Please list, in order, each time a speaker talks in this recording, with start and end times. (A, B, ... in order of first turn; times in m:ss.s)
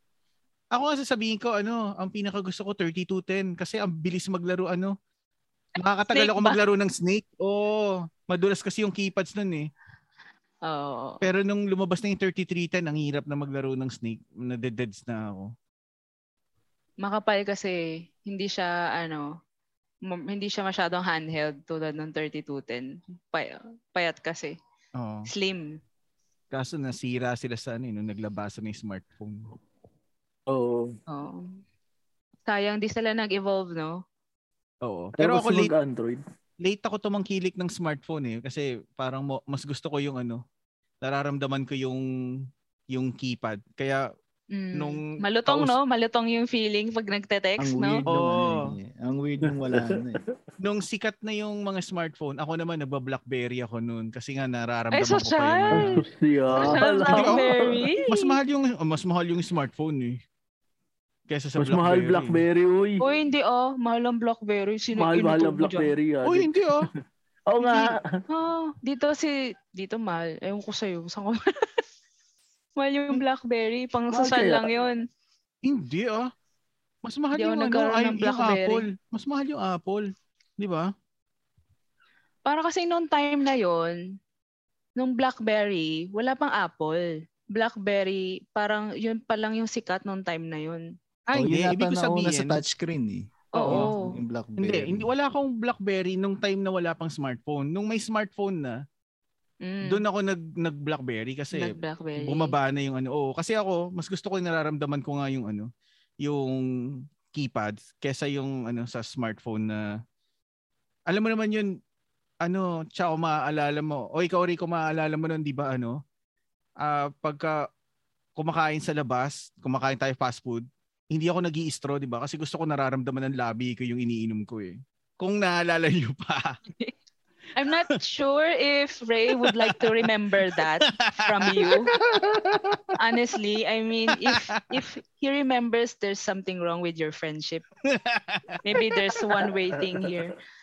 0:00.7-0:04.9 A
0:05.8-0:09.7 A
0:06.1-0:06.6 B
0:10.6-0:11.2 B
0:11.2-0:15.5 A
0:17.0-0:19.3 B
0:20.1-0:24.5 B
0:25.0-0:25.3 A
0:25.3-0:25.8 B
0:26.5-0:29.5 A
0:30.5-0:30.9 C
0:31.1-0:31.5 B
0:32.5-0:34.0 B
0:34.8-0:35.7 A
0:35.2-0:36.2 C
0:36.6-0:40.4 A
0:41.0-0:42.1 A
0:42.9-0:44.0 A
0:44.5-0:48.0 B
0:44.7-0:45.8 A
0:47.6-0:50.2 D
0:48.1-0:48.7 A
0:49.5-0:50.3 C
0:50.6-0:56.0 A
0:54.9-0:55.9 B
0:55.7-0:57.9 C
0:56.5-0:58.3 B
0:56.6-0:57.4 A
0:58.1-1:00.2 A
1:01.3-1:02.4 A
1:01.6-1:03.0 C
1:03.0-1:05.9 B
1:04.9-1:06.6 C
1:06.2-1:06.9 A
1:07.5-1:08.2 C
1:07.6-1:07.9 A
1:08.3-1:11.8 B
1:12.8-1:15.0 B
1:14.1-1:14.7 C
1:15.6-1:16.3 A
1:17.0-1:20.9 A
1:17.4-1:18.9 B
1:22.4-1:24.0 B
1:25.0-1:30.8 B
1:31.3-1:32.6 A
1:31.3-1:35.1 D
1:33.5-1:34.2 B
1:34.6-1:38.8 A
1:39.6-1:40.0 B
1:39.8-1:45.7 A
1:41.5-1:42.5 B
1:46.2-1:46.6 A
1:47.3-1:49.8 A
1:51.1-1:51.7 A
1:52.4-1:56.0 A
1:56.8-1:57.6 A
1:58.4-2:06.6 A
2:07.6-2:11.9 B
2:09.4-2:09.9 A
2:10.9-2:12.9 A
2:13.0-2:17.6 B
2:14.1-2:14.6 A
2:17.8-2:18.6 A
2:18.6-2:20.4 B